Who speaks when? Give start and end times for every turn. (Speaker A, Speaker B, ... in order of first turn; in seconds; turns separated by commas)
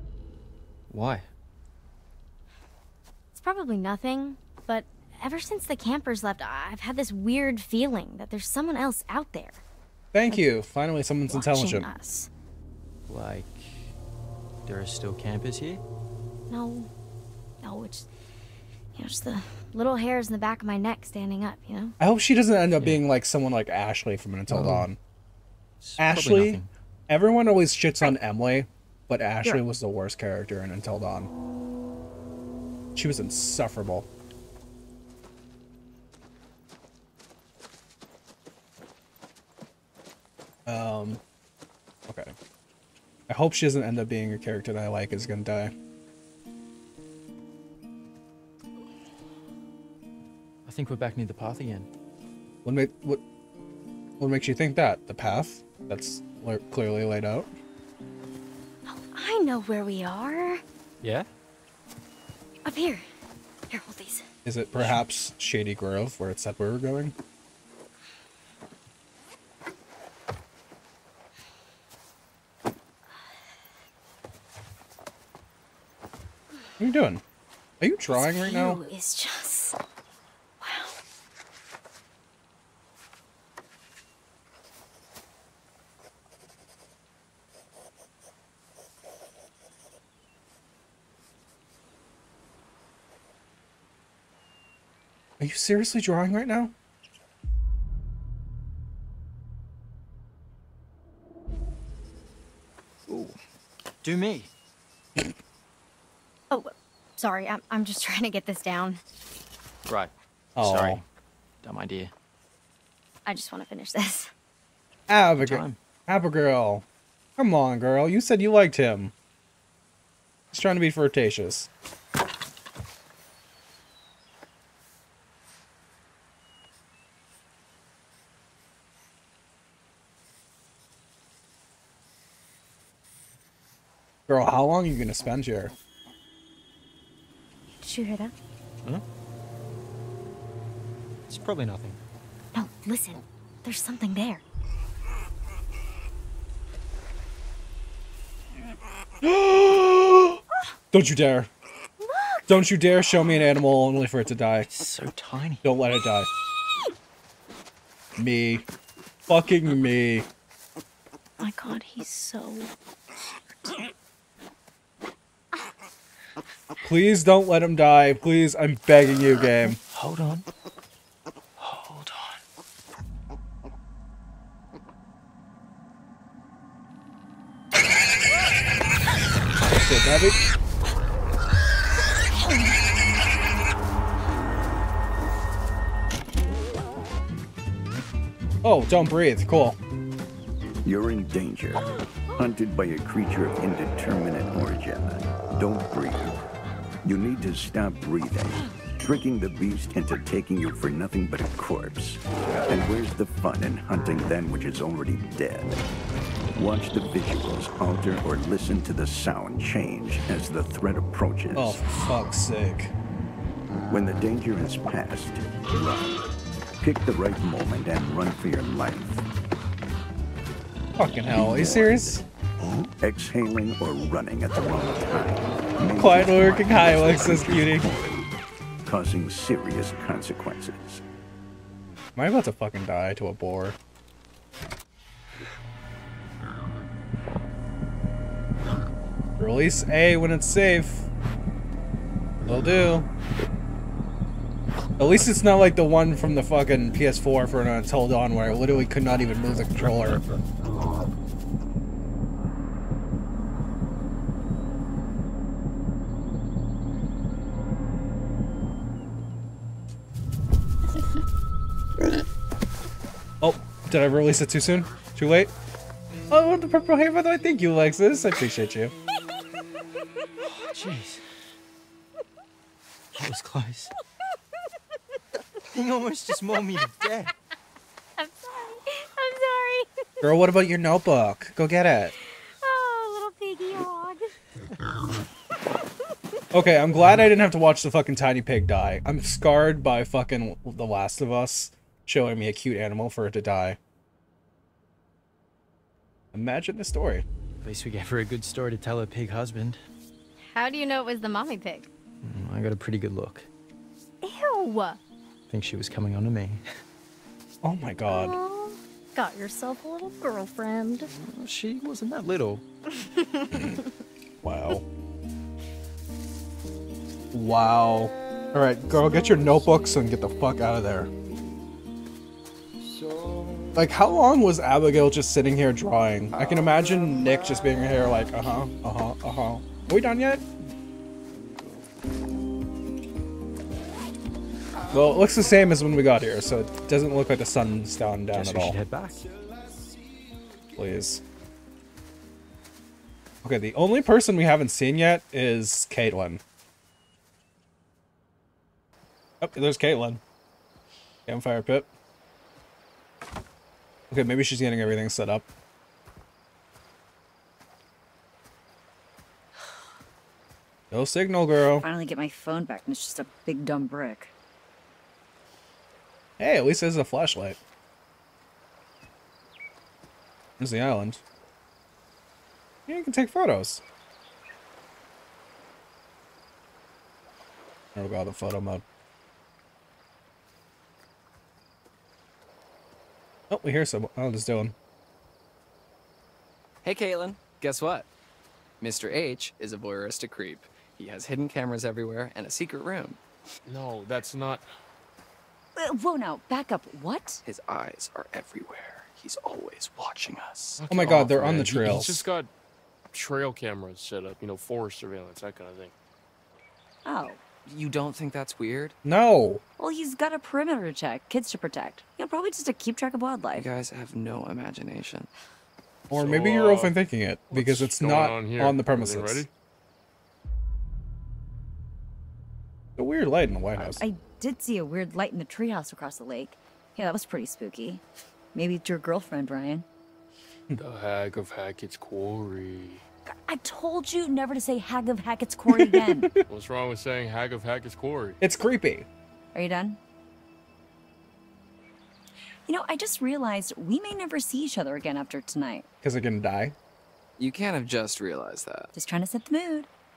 Speaker A: 0.9-1.3, Speaker B: 3.3-9.6, Speaker C: 10.1-11.9, Speaker B: 11.3-12.3, Speaker A: 13.1-13.9, Speaker A: 14.7-15.8, Speaker B: 16.5-16.9, Speaker B: 17.6-18.1, Speaker B: 18.9-21.9, Speaker C: 22.0-25.0, Speaker A: 24.5-24.9, Speaker A: 25.8-26.7, Speaker C: 26.0-31.3, Speaker C: 32.9-34.1, Speaker C: 40.6-41.2, Speaker C: 42.1-42.3, Speaker C: 43.3-45.7, Speaker A: 50.6-51.9, Speaker C: 52.6-53.2, Speaker C: 54.2-57.5, Speaker B: 58.9-60.6, Speaker A: 61.0-61.3, Speaker B: 62.6-63.0, Speaker B: 63.7-64.3, Speaker C: 64.4-67.1, Speaker C: 76.8-77.2, Speaker C: 77.8-78.8, Speaker B: 78.1-79.8, Speaker B: 80.6-81.0, Speaker C: 95.4-96.7, Speaker A: 103.1-103.4, Speaker A: 104.0-104.5, Speaker B: 106.5-109.0, Speaker A: 109.9-111.0, Speaker C: 110.6-111.0, Speaker A: 111.6-112.1, Speaker B: 113.2-114.3, Speaker C: 115.1-116.8, Speaker A: 115.3-115.8, Speaker C: 117.4-119.1, Speaker C: 120.5-121.7, Speaker C: 134.3-135.7, Speaker B: 137.8-138.3, Speaker A: 141.3-142.0, Speaker B: 142.5-144.4, Speaker C: 149.2-151.5, Speaker B: 152.0-153.4, Speaker C: 152.5-154.7, Speaker A: 154.7-155.6, Speaker C: 155.6-156.3, Speaker C: 158.2-158.7, Speaker C: 159.3-160.3, Speaker B: 161.4-162.7, Speaker C: 166.8-169.8, Speaker A: 169.9-170.4, Speaker A: 171.6-172.3, Speaker C: 179.6-180.4, Speaker C: 188.6-189.8, Speaker D: 190.8-196.4, Speaker D: 197.0-205.8, Speaker D: 206.5-211.8, Speaker C: 211.5-212.9, Speaker D: 213.9-216.2, Speaker D: 216.8-219.2, Speaker C: 221.0-222.2, Speaker A: 221.1-222.2, Speaker D: 221.3-221.8, Speaker D: 222.6-228.2, Speaker C: 226.0-227.9, Speaker D: 228.8-231.0, Speaker C: 232.1-233.8, Speaker C: 239.4-241.1, Speaker C: 242.4-243.1, Speaker C: 245.0-250.2, Speaker C: 263.4-265.5, Speaker C: 266.3-268.9, Speaker A: 270.4-271.2, Speaker A: 273.1-273.9, Speaker A: 275.7-277.3, Speaker B: 278.2-280.0, Speaker C: 280.2-282.1, Speaker B: 282.6-284.3, Speaker C: 286.5-293.8, Speaker C: 296.3-297.2, Speaker A: 297.6-299.8, Speaker B: 300.4-301.9, Speaker A: 302.2-303.5, Speaker B: 304.2-305.0, Speaker A: 305.5-306.6, Speaker C: 307.6-308.4, Speaker B: 308.1-311.1, Speaker A: 311.0-312.6, Speaker B: 313.2-313.8, Speaker C: 314.4-314.8, Speaker C: 317.3-321.1, Speaker C: 323.7-330.4, Speaker C: 334.9-338.8, Speaker A: 338.3-339.3, Speaker C: 340.8-341.2, Speaker C: 343.4-346.4, Speaker C: 349.4-350.2, Speaker C: 351.3-351.9, Speaker C: 354.1-355.5, Speaker C: 360.9-361.9, Speaker E: 361.8-364.3, Speaker C: 366.4-367.6, Speaker C: 370.6-371.2, Speaker C: 372.9-373.8, Speaker C: 377.9-378.8, Speaker C: 383.5-384.7, Speaker F: 386.8-388.1, Speaker F: 388.8-393.2, Speaker G: 393.6-394.6, Speaker E: 395.8-397.4, Speaker F: 397.4-400.8, Speaker G: 400.8-402.5, Speaker C: 400.9-402.2, Speaker G: 403.1-405.9, Speaker E: 407.0-407.4, Speaker F: 407.6-408.9, Speaker C: 409.0-409.6, Speaker E: 409.8-413.7, Speaker F: 413.5-415.3, Speaker C: 416.1-419.4, Speaker G: 416.1-416.9, Speaker G: 417.5-419.5, Speaker C: 422.9-424.0, Speaker E: 423.8-428.0, Speaker E: 428.5-429.8, Speaker G: 430.8-433.0, Speaker E: 433.2-436.3, Speaker C: 435.7-436.4, Speaker G: 436.5-438.4, Speaker C: 438.4-439.1, Speaker E: 439.5-440.0, Speaker E: 442.6-445.9, Speaker C: 446.0-446.8, Speaker F: 447.4-448.9, Speaker E: 448.9-449.9